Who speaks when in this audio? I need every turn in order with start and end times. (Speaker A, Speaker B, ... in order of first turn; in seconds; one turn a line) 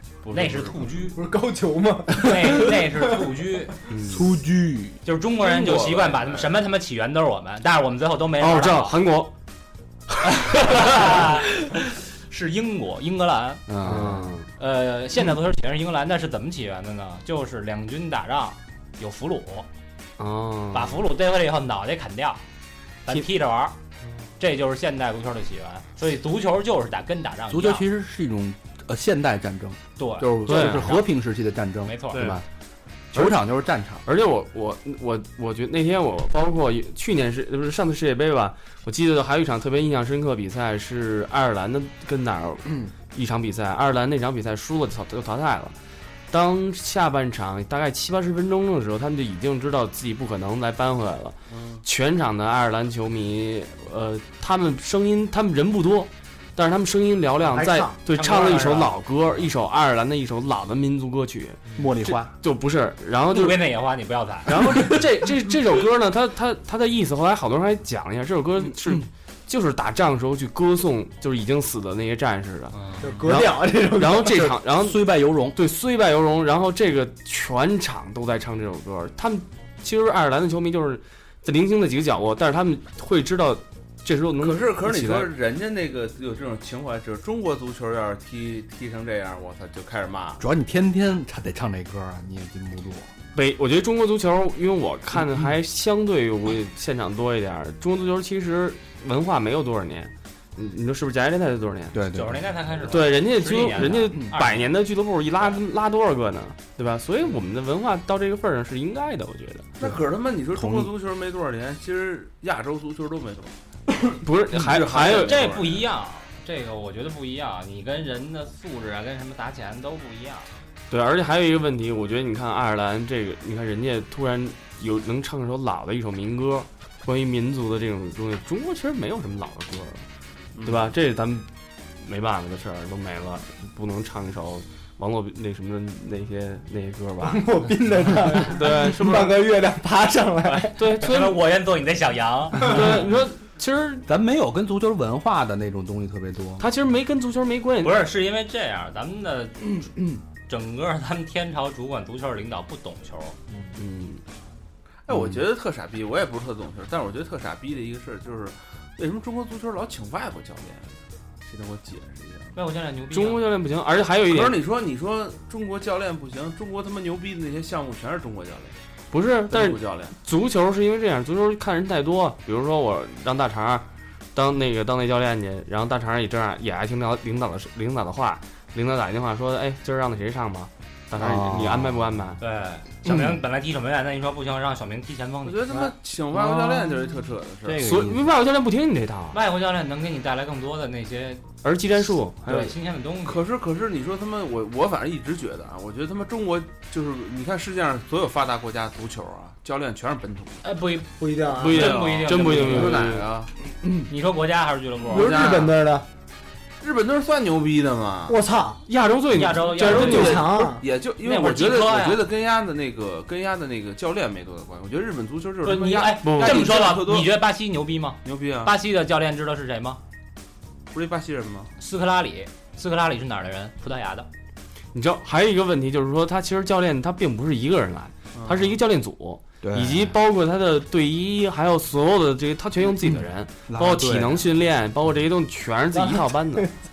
Speaker A: 0.3-1.2
Speaker B: 1.1-3.3
Speaker A: 2.2-3.7
Speaker C: 3.9-4.2
Speaker D: 4.0-5.0
Speaker A: 5.0-9.0
Speaker E: 5.4-6.6
Speaker C: 8.4-9.3
Speaker C: 10.3-11.2
Speaker A: 10.5-11.8
Speaker A: 12.3-13.6
Speaker D: 13.7-14.4
Speaker C: 13.8-14.5
Speaker A: 14.6-19.7
Speaker C: 20.2-21.0
Speaker A: 20.7-22.4
Speaker A: 23.1-23.8
Speaker A: 24.4-27.9
Speaker D: 27.5-32.5
Speaker A: 30.0-31.1
Speaker C: 30.5-31.0
Speaker A: 31.9-32.3
Speaker C: 32.1-32.4
Speaker D: 33.1-34.0
Speaker C: 33.1-33.4
Speaker C: 34.0-45.8
Speaker C: 46.3-63.6
Speaker E: 51.5-51.8
Speaker B: 57.5-58.0
Speaker A: 58.1-59.0
Speaker D: 61.8-62.3
Speaker A: 63.3-64.6
Speaker C: 64.5-85.3
Speaker A: 72.7-73.2
Speaker B: 73.0-74.5
Speaker D: 74.2-75.6
Speaker E: 84.4-90.4
Speaker D: 90.4-93.1
Speaker C: 93.3-102.0
Speaker D: 101.9-102.5
Speaker A: 102.1-104.7
Speaker C: 102.9-109.7
Speaker E: 109.8-115.8
Speaker D: 110.5-110.9
Speaker C: 114.2-115.5
Speaker A: 115.0-120.5
Speaker C: 120.9-130.0
Speaker E: 130.6-130.9
Speaker C: 130.6-131.5
Speaker C: 132.0-137.5
Speaker B: 137.2-140.8
Speaker C: 138.1-139.5
Speaker C: 140.7-141.4
Speaker A: 140.9-143.0
Speaker C: 142.5-144.1
Speaker D: 144.1-146.7
Speaker C: 146.6-148.1
Speaker A: 147.8-149.9
Speaker D: 149.7-150.2
Speaker A: 150.5-153.4
Speaker C: 153.8-154.2
Speaker E: 155.1-162.6
Speaker D: 155.1-155.4
Speaker A: 162.6-163.4
Speaker C: 163.1-164.6
Speaker E: 164.3-168.8
Speaker C: 169.1-182.4
Speaker E: 169.5-170.2
Speaker D: 181.1-182.2
Speaker A: 182.4-185.7
Speaker D: 183.1-183.4
Speaker E: 185.4-187.9
Speaker D: 186.5-186.8
Speaker D: 187.7-188.3
Speaker C: 187.8-189.4
Speaker A: 189.3-191.4
Speaker C: 191.6-192.7
Speaker A: 192.4-193.4
Speaker E: 193.2-200.7
Speaker A: 200.6-203.1
Speaker B: 201.2-202.0
Speaker C: 201.5-203.3
Speaker E: 201.8-203.5
Speaker A: 204.1-205.4
Speaker E: 205.1-205.8
Speaker B: 205.1-206.1
Speaker E: 206.8-208.4
Speaker B: 208.3-208.8
Speaker C: 208.9-210.6
Speaker A: 209.3-210.5
Speaker E: 209.8-217.3
Speaker B: 210.0-210.8
Speaker A: 211.2-212.2
Speaker A: 215.6-220.0
Speaker C: 216.2-216.7
Speaker E: 218.2-218.8
Speaker E: 220.9-221.7
Speaker A: 221.8-224.3
Speaker C: 224.9-236.7
Speaker E: 228.3-228.8
Speaker D: 229.6-230.2
Speaker D: 233.1-234.5
Speaker B: 235.9-236.7